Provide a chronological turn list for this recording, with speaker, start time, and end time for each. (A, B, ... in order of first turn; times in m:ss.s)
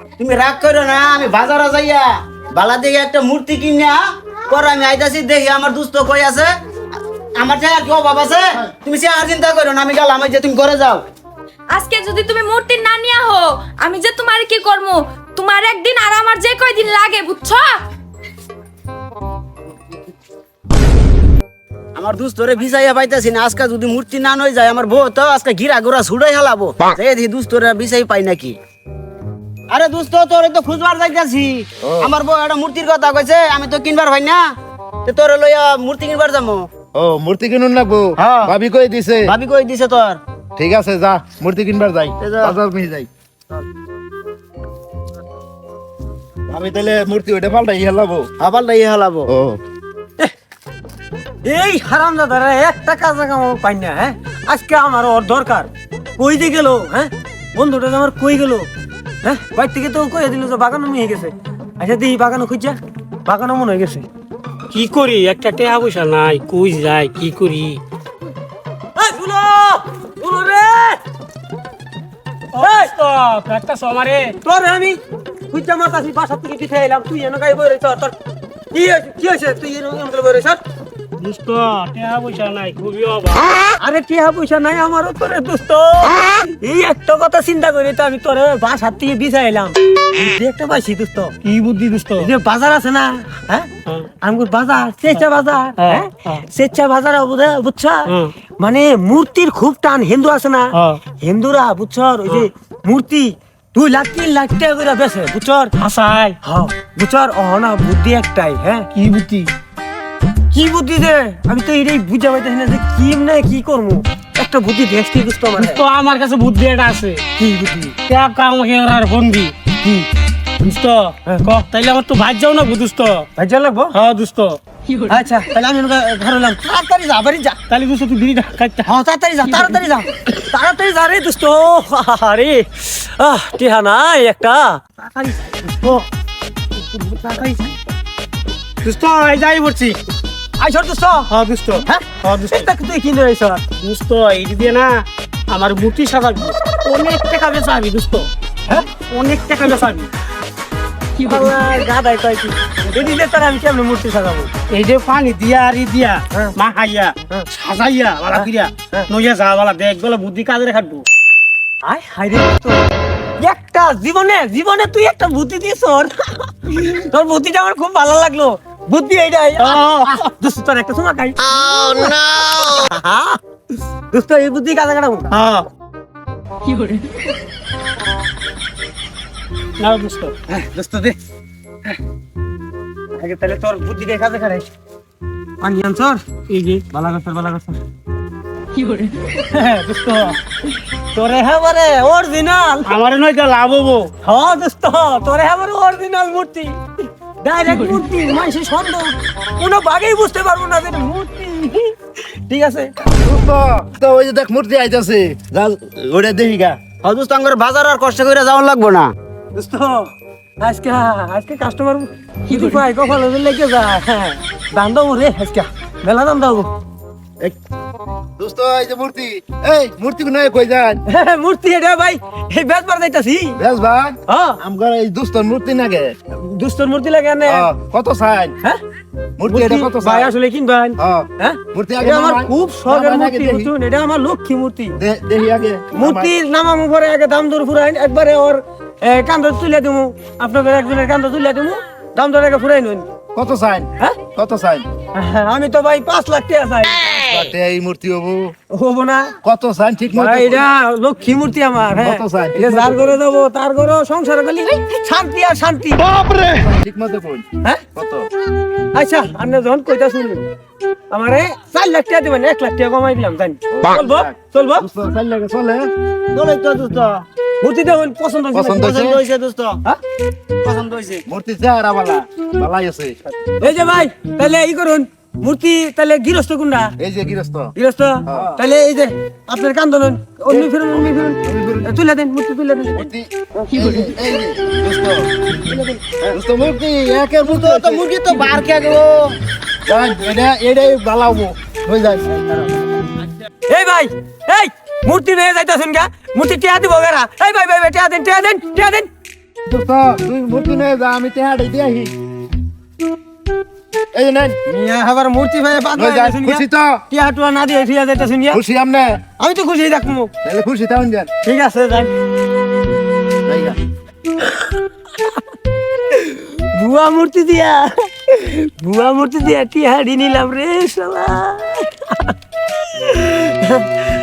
0:00.2-0:06.5 A
0:07.4-0:11.0 A
0:11.7-0:17.8 B
0:22.0-0:28.6 A
0:29.7-0:34.4 A
0:31.8-0:32.1 C
0:35.0-0:36.7 A
0:36.9-0:39.3 C
0:38.2-0:38.5 A
0:39.2-0:40.2 A
0:40.6-0:43.1 C
0:42.2-0:42.6 A
0:46.5-0:48.3 C
0:48.4-0:49.3 A
0:49.3-0:49.6 C
0:51.4-0:58.7 D
0:59.2-1:04.1 D
1:04.7-1:07.8 E
1:09.0-1:11.0 D
1:12.5-1:14.3 E
1:12.6-1:12.9 D
1:14.4-1:15.0 D
1:15.5-1:18.1 D
1:18.7-1:20.6 D
1:21.2-1:23.5 E
1:23.8-1:31.4 D
1:31.4-1:32.3 E
1:32.2-1:33.7 D
1:34.2-1:45.7 D
1:35.8-1:36.4 E
1:38.1-1:38.3 E
1:40.7-1:41.0 E
1:45.8-1:46.4 E
1:46.4-1:48.9 D
1:48.9-1:49.5 E
1:50.5-1:55.8 D
1:55.6-1:57.2 E
1:57.4-1:58.0 D
1:58.0-1:59.5 E
2:00.6-2:03.3 E
2:03.4-2:03.9 D
2:03.9-2:04.6 E
2:05.1-2:07.6 D
2:07.7-2:08.9 E
2:08.8-2:16.0 D
2:09.5-2:09.8 E
2:16.7-2:17.7 D
2:18.8-2:20.0 E
2:20.6-2:21.3 D
2:21.3-2:22.7 E
2:21.8-2:23.6 D
2:23.8-2:28.3 E
2:26.8-2:27.2 D
2:28.9-2:30.1 E
2:31.1-2:34.5 D
2:34.7-2:41.0 E
2:38.3-2:39.1 D
2:41.8-2:42.8 D
2:43.4-2:53.4 D
2:49.6-2:50.2 E
2:54.1-2:55.3 D
2:55.3-2:55.7 E
2:56.6-2:57.0 B
2:59.8-3:00.4 E
3:00.5-3:01.2 D
3:03.2-3:04.6 D
3:05.6-3:06.2 D
3:06.5-3:06.8 E
3:06.9-3:07.8 D
3:08.8-3:09.1 B
3:09.3-3:10.4 D
3:11.1-3:13.0 D
3:12.8-3:14.1 E
3:14.2-3:16.8 D
3:17.4-3:22.9 D
3:23.2-3:26.8 C
3:26.9-3:29.1 A
3:29.5-3:36.7 D
3:38.4-3:41.0 C
3:41.1-3:43.6 D
3:43.6-3:46.2 C
3:44.3-3:44.6 D
3:46.3-3:47.7 D
3:47.4-3:48.6 C
3:49.4-3:50.3 C
3:49.5-3:55.0 D
3:51.0-3:53.7 C
3:55.0-3:56.4 C
3:55.9-4:03.1 D
4:03.3-4:04.9 C
4:05.1-4:07.2 D
4:07.2-4:08.5 C
4:08.7-4:09.3 D
4:09.4-4:10.7 C
4:10.1-4:16.0 D
4:12.0-4:13.2 C
4:16.0-4:18.3 C
4:18.9-4:20.4 D
4:21.1-4:24.8 D
4:23.7-4:25.9 C
4:26.3-4:27.2 A
4:27.6-4:28.9 D
4:28.5-4:29.2 C
4:28.7-4:29.8 A
4:30.6-4:31.2 A
4:31.3-4:33.2 C
4:33.6-4:36.9 D
4:37.0-4:37.7 C
4:37.7-4:44.2 D
4:38.2-4:38.6 C
4:40.5-4:41.9 C
4:42.9-4:45.3 C
4:45.7-4:46.2 D
4:46.3-4:48.0 C
4:47.4-4:49.4 A
4:49.8-4:52.3 C
4:53.7-4:59.1 D
4:59.6-5:02.1 C
5:04.1-5:04.6 C
5:04.6-5:08.6 D
5:05.9-5:07.0 C
5:08.5-5:09.2 C
5:09.4-5:10.3 D
5:10.4-5:11.3 C
5:11.4-5:12.1 D
5:13.4-5:13.8 C
5:16.1-5:23.9 D